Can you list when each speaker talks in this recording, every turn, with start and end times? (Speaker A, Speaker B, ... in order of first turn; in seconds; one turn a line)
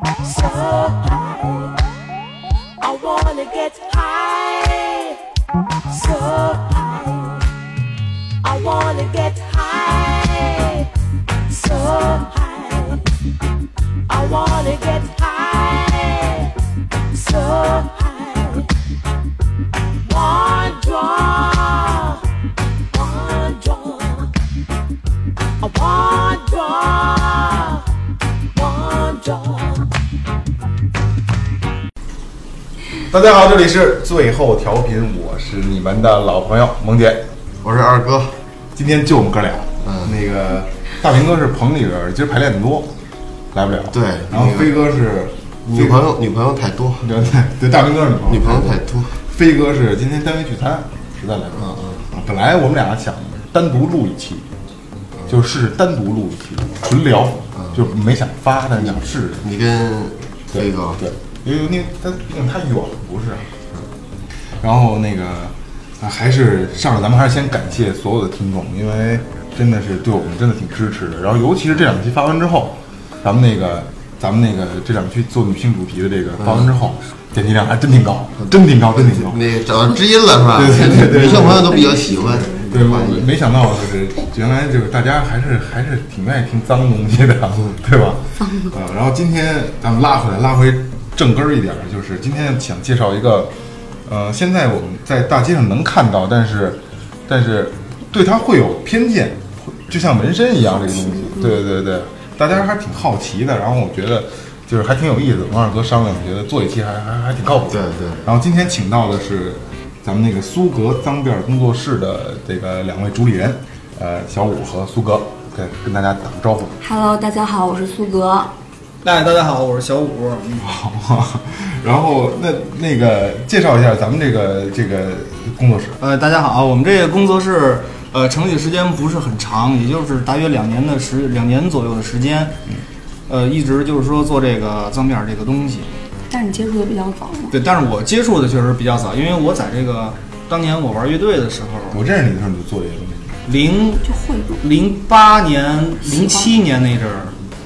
Speaker A: 0.2-1.8
Speaker A: 2.8-5.2
Speaker A: 5.9-7.4
Speaker A: 8.4-10.9
Speaker A: 11.5-13.1
Speaker A: 14.1-16.6
Speaker A: 17.1-18.7
Speaker A: 20.0-22.2
Speaker A: 22.9-24.3
Speaker A: 25.6-27.9
Speaker A: 28.5-29.9
Speaker B: 33.1-37.3
Speaker C: 37.6-38.4
Speaker B: 38.8-42.9
Speaker C: 39.8-40.1
Speaker B: 43.5-46.1
Speaker C: 43.9-44.7
Speaker C: 45.7-47.0
Speaker B: 47.0-54.5
Speaker C: 48.3-49.1
Speaker C: 51.6-52.0
Speaker B: 55.3-59.5
Speaker C: 58.8-61.0
Speaker B: 60.5-63.5
Speaker B: 64.6-79.4
Speaker C: 78.4-83.3
Speaker B: 80.5-93.5
Speaker D: 81.6-82.1
Speaker B: 94.1-116.8
Speaker D: 100.9-101.5
Speaker C: 107.7-108.3
Speaker D: 116.8-118.5
Speaker E: 119.0-120.7
Speaker B: 120.6-126.0
Speaker E: 126.0-132.6
Speaker E: 133.3-136.0
Speaker D: 136.3-137.5
Speaker E: 137.5-142.0
Speaker B: 141.9-143.4
Speaker E: 143.4-144.1
Speaker D: 144.0-144.6
Speaker E: 144.6-147.4
Speaker D: 146.0-146.5